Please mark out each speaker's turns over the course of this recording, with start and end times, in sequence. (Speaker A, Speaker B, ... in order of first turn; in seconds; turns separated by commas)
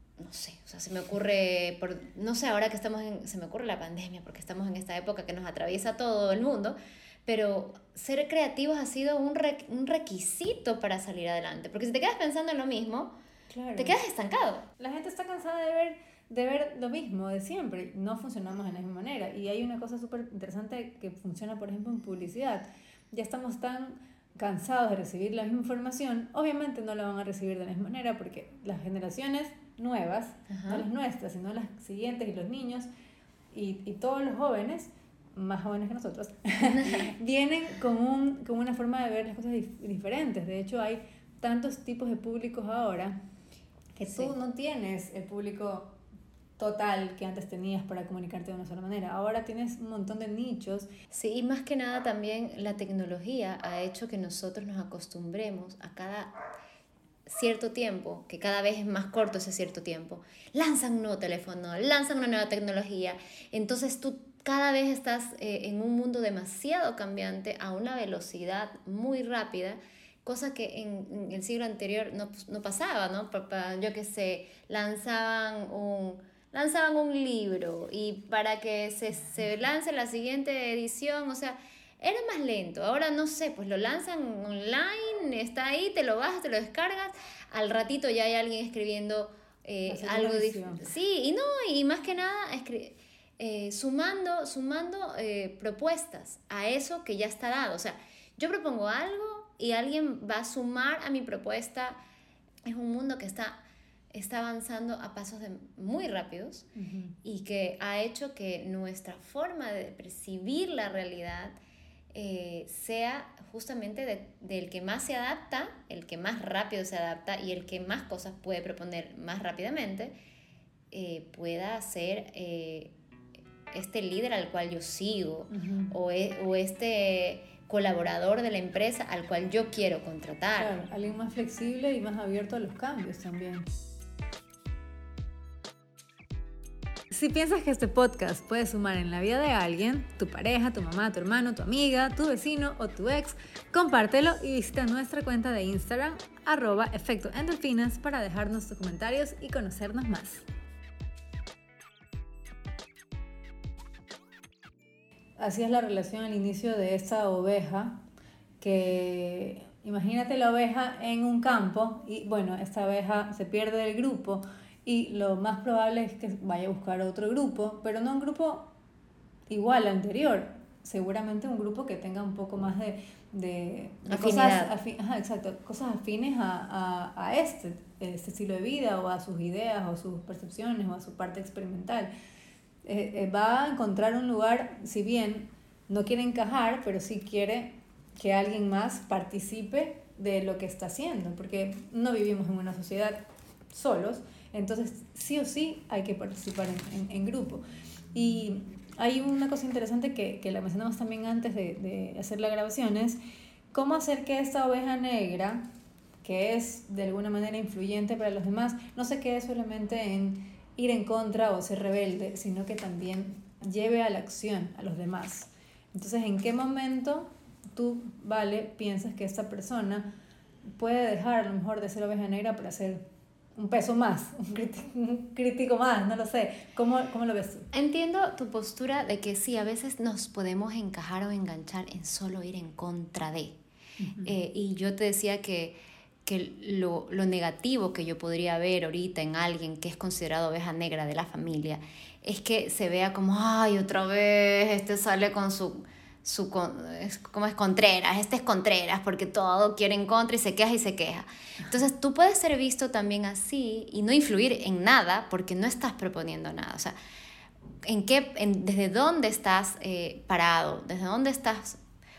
Speaker A: 0.2-13.2, Speaker B: 13.5-13.9, Speaker A: 13.8-14.7, Speaker B: 14.8-32.9, Speaker A: 30.5-30.8, Speaker B: 33.5-43.2, Speaker A: 36.7-37.1, Speaker B: 44.0-45.9, Speaker A: 44.1-44.3, Speaker B: 46.6-50.9, Speaker A: 51.1-56.3, Speaker A: 57.3-102.0, Speaker B: 89.9-90.8, Speaker A: 102.6-103.6, Speaker A: 104.1-106.7, Speaker B: 106.7-107.2, Speaker A: 107.2-111.6, Speaker A: 112.1-120.2, Speaker A: 120.9-122.9, Speaker A: 123.7-130.8, Speaker B: 125.5-125.9, Speaker B: 130.6-133.7, Speaker B: 137.1-150.4, Speaker B: 155.4-158.0, Speaker B: 158.6-168.7, Speaker B: 169.5-182.1, Speaker A: 174.1-174.7, Speaker B: 182.8-203.2, Speaker B: 203.7-205.7, Speaker B: 206.2-220.1, Speaker B: 220.6-223.0, Speaker B: 223.6-227.7, Speaker A: 227.7-233.6, Speaker B: 234.0-234.3, Speaker A: 234.2-256.9, Speaker A: 257.8-261.8